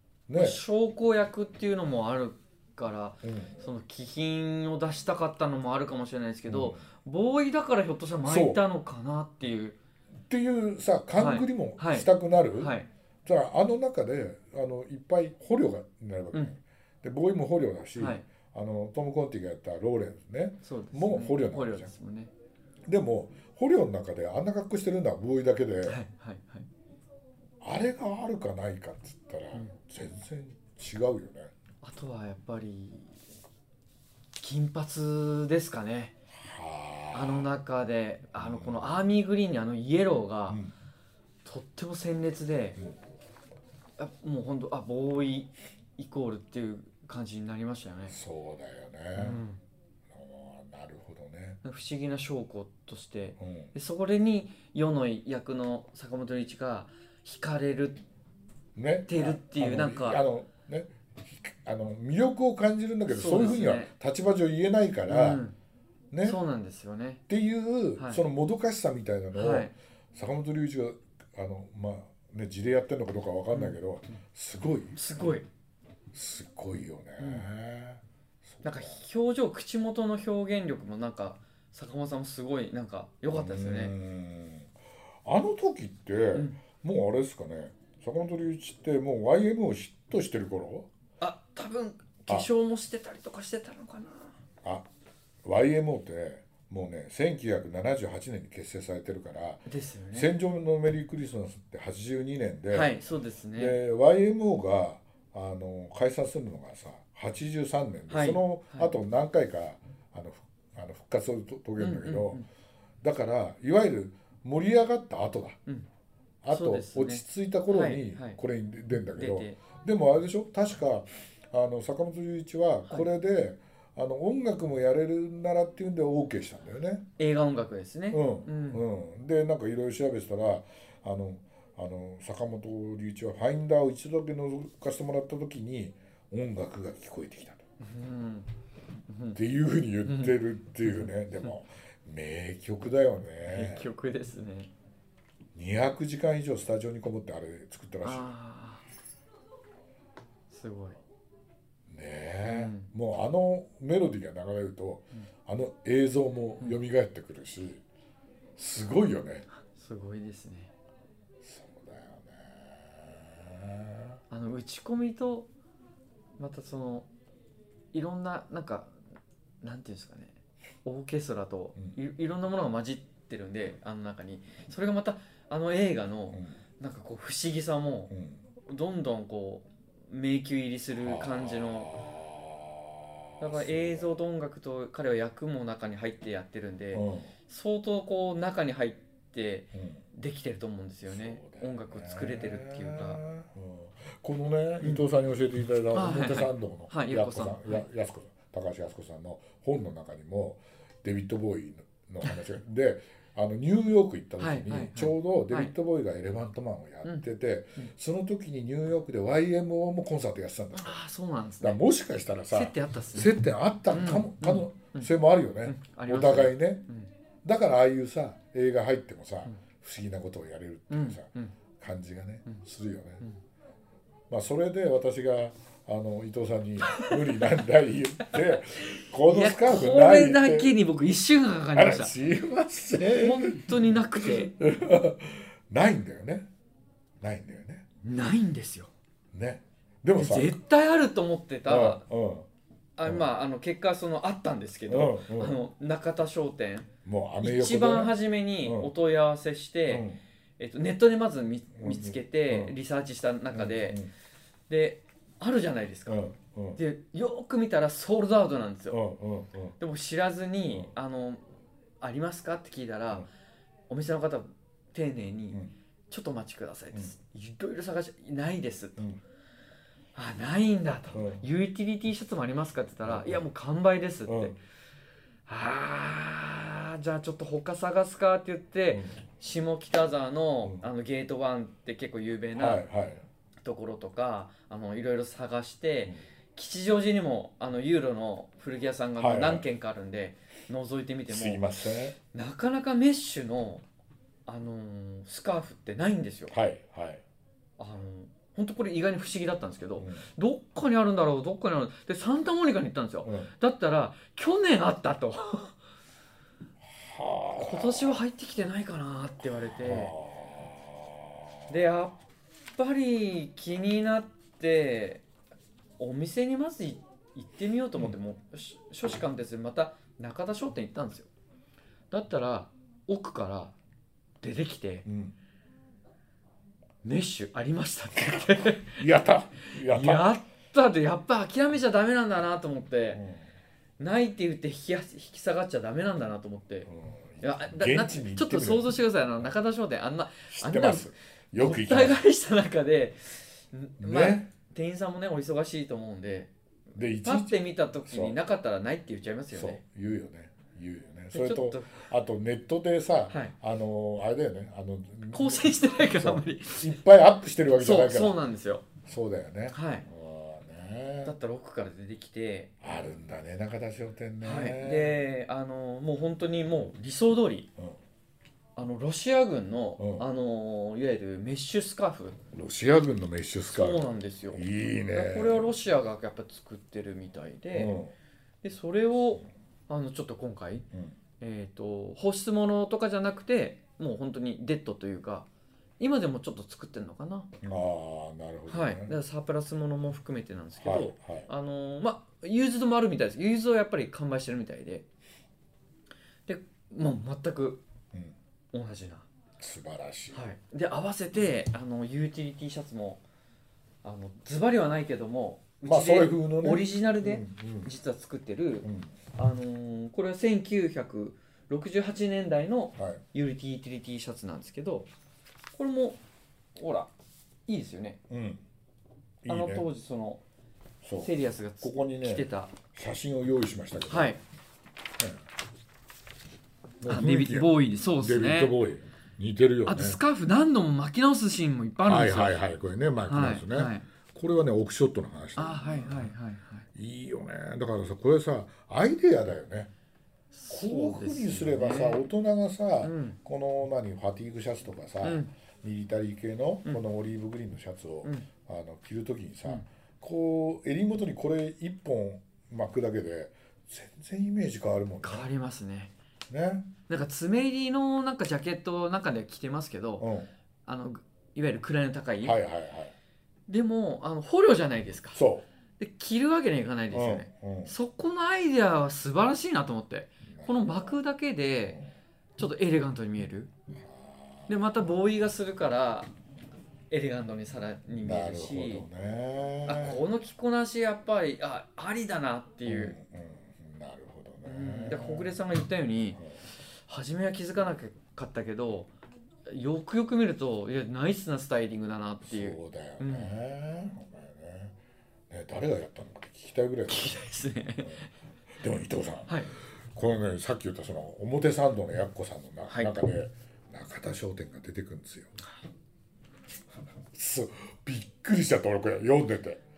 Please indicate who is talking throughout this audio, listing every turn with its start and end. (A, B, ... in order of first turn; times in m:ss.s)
0:00.3-0:00.6 A
0:00.4-0:09.8 B
0:03.2-0:03.6 A
0:06.5-0:06.8 A
0:08.2-0:08.6 A
0:10.3-0:21.9 A
0:11.1-0:12.9 B
0:18.0-0:18.2 B
0:20.6-0:22.3 B
0:22.9-0:26.0 A
0:25.8-0:26.7 B
0:27.6-0:31.5 A
0:31.8-0:33.2 B
0:34.4-0:36.1 B
0:36.3-0:37.5 A
0:37.1-0:40.6 B
0:38.4-0:39.1 A
0:40.5-0:40.7 A
0:41.4-0:42.8 B
0:44.0-0:48.2 B
0:48.1-0:49.4 A
0:49.1-0:49.6 B
0:50.1-0:51.6 A
0:51.6-0:58.0 B
0:53.4-0:53.7 A
0:58.8-1:05.4 A
0:59.1-1:00.2 B
1:03.1-1:03.9 B
1:05.1-1:05.5 B
1:06.1-1:06.4 A
1:06.2-1:07.2 B
1:07.3-1:15.4 A
1:08.0-1:08.2 B
1:09.3-1:09.7 B
1:13.5-1:13.8 B
1:14.9-1:15.4 B
1:16.1-1:19.0 A
1:17.2-1:17.4 B
1:18.6-1:23.9 B
1:23.3-1:30.9 A
1:26.3-1:26.6 B
1:31.2-1:34.4 B
1:35.4-1:42.9 A
1:39.7-1:40.3 B
1:42.7-1:43.8 B
1:43.5-1:52.4 A
1:48.1-1:48.9 B
1:51.8-1:52.4 B
1:53.0-1:55.6 A
1:56.4-2:07.0 A
1:56.5-1:58.4 B
1:59.0-1:59.6 B
2:07.2-2:08.8 B
2:08.1-2:17.6 A
2:17.8-2:18.5 B
2:19.1-2:19.4 B
2:19.3-2:23.9 A
2:20.0-2:21.1 B
2:23.4-2:24.7 B
2:25.5-2:28.3 A
2:28.0-2:28.8 B
2:30.5-2:31.0 B
2:31.9-2:37.8 A
2:32.4-2:32.9 B
2:38.6-2:39.5 A
2:39.6-2:40.7 B
2:41.4-2:44.2 A
2:44.3-2:45.5 B
2:46.4-2:47.1 B
2:47.9-2:48.9 B
2:49.6-2:58.1 B
2:56.3-2:56.6 A
2:58.1-2:58.4 A
2:58.6-3:02.0 B
3:01.0-3:04.1 A
3:03.4-3:13.2 B
3:06.9-3:07.3 A
3:09.7-3:10.0 A
3:11.0-3:31.0 A
3:14.8-3:15.1 B
3:15.9-3:17.8 B
3:24.4-3:25.7 B
3:30.7-3:31.8 B
3:31.6-3:36.9 A
3:32.5-3:33.3 B
3:33.9-3:35.1 B
3:35.6-3:37.1 B
3:37.4-3:43.2 A
3:40.9-3:41.5 B
3:44.3-3:50.7 A
3:46.9-3:47.4 B
3:49.2-3:52.1 B
3:51.7-3:56.5 A
3:53.0-3:54.5 B
3:57.2-3:57.8 A
3:58.0-3:58.9 B
3:59.3-4:00.5 A
4:00.2-4:02.0 B
4:01.7-4:02.5 A
4:03.0-4:06.9 B
4:03.0-4:03.3 A
4:04.9-4:05.6 A
4:07.0-4:08.9 A
4:07.4-4:10.1 B
4:09.9-4:10.2 A
4:10.6-4:14.0 B
4:11.7-4:12.8 A
4:13.5-4:14.1 A
4:14.7-4:19.0 B
4:16.1-4:16.8 A
4:18.9-4:19.8 A
4:19.8-4:21.4 B
4:22.0-4:23.2 B
4:23.9-4:29.0 B
4:30.1-4:34.6 B
4:31.1-4:31.4 A
4:33.0-4:33.4 A
4:34.2-4:34.6 A
4:35.5-4:42.8 B
4:38.9-4:39.2 A
4:42.6-4:43.2 A
4:43.6-4:51.6 B
4:49.2-4:49.7 A
4:51.3-4:52.2 A
4:52.3-4:53.8 B
4:54.5-4:56.5 B
4:56.5-4:57.2 A
4:57.8-5:05.8 B
5:00.0-5:00.3 A
5:03.2-5:03.5 A
5:06.8-5:08.2 A
5:07.6-5:10.1 B
5:09.7-5:11.7 A
5:11.7-5:12.2 B
5:12.8-5:15.2 B
5:16.0-5:21.3 B
5:22.1-5:23.7 B
5:24.4-5:25.1 B
5:25.0-5:25.4 A
5:27.0-5:29.1 B
5:28.2-5:30.3 A
5:29.6-5:33.2 B
5:33.1-5:33.4 A
5:34.0-5:36.9 B
5:36.8-5:39.4 A
5:37.4-5:46.5 B
5:40.5-5:42.2 A
5:44.0-5:44.5 A
5:46.9-5:48.4 A
5:47.2-5:49.8 B
5:49.5-5:58.4 A
5:51.3-5:52.0 B
5:53.3-5:53.5 B
5:55.3-5:56.9 B
5:57.7-5:58.8 B
5:59.0-6:01.3 A
5:59.7-6:00.0 B
6:01.2-6:02.7 B
6:02.8-6:05.2 A
6:04.4-6:07.7 B
6:08.8-6:12.4 B
6:10.0-6:10.3 A
6:12.5-6:15.7 A
6:13.7-6:18.0 B
6:17.7-6:18.1 A
6:18.6-6:20.9 B
6:21.4-6:25.5 B
6:26.0-6:27.5 B
6:27.6-6:29.1 A
6:28.7-6:35.0 B
6:30.8-6:31.5 A
6:36.5-6:37.8 B
6:38.7-6:39.3 B
6:39.6-6:40.4 A
6:40.3-6:43.2 B
6:44.0-6:55.1 B
6:45.8-6:47.9 A
6:48.8-6:49.1 A
6:53.0-6:53.2 A
6:55.7-6:56.2 B
6:56.8-6:57.1 B
6:57.7-6:58.2 B
6:58.3-6:58.6 A
6:59.4-6:59.8 A
6:59.5-7:00.4 B
7:01.0-7:04.4 A
7:01.2-7:02.8 B
7:04.1-7:04.4 B
7:07.0-7:10.2 A
7:07.0-7:08.8 B
7:09.8-7:12.6 B
7:12.0-7:16.3 A
7:13.3-7:14.0 B
7:15.6-7:16.8 B
7:16.9-7:19.9 A
7:20.5-7:22.3 B
7:20.7-7:35.5 A
7:23.0-7:23.4 B
7:25.2-7:25.5 B
7:35.2-7:36.1 B
7:36.5-7:36.9 A
7:37.1-7:40.3 B
7:40.2-7:40.5 A
7:40.8-7:42.6 B
7:42.4-7:43.2 A
7:43.7-7:45.4 B
7:45.3-7:45.7 A
7:46.0-7:52.0 B
7:47.1-7:47.9 A
7:50.5-7:51.1 A
7:52.6-7:53.7 B
7:53.9-7:54.8 A
7:54.7-7:56.3 B
7:57.1-7:59.0 B
7:58.2-8:00.2 A
7:59.8-8:03.1 B
8:02.8-8:05.6 A
8:04.6-8:06.4 B
8:07.1-8:09.1 B
8:09.7-8:13.5 B
8:12.4-8:15.0 A
8:15.5-8:17.4 A
8:17.1-8:18.3 B
8:18.0-8:18.3 A
8:18.8-8:19.6 A
8:19.5-8:19.7 B
8:20.1-8:25.6 A
8:27.3-8:29.8 A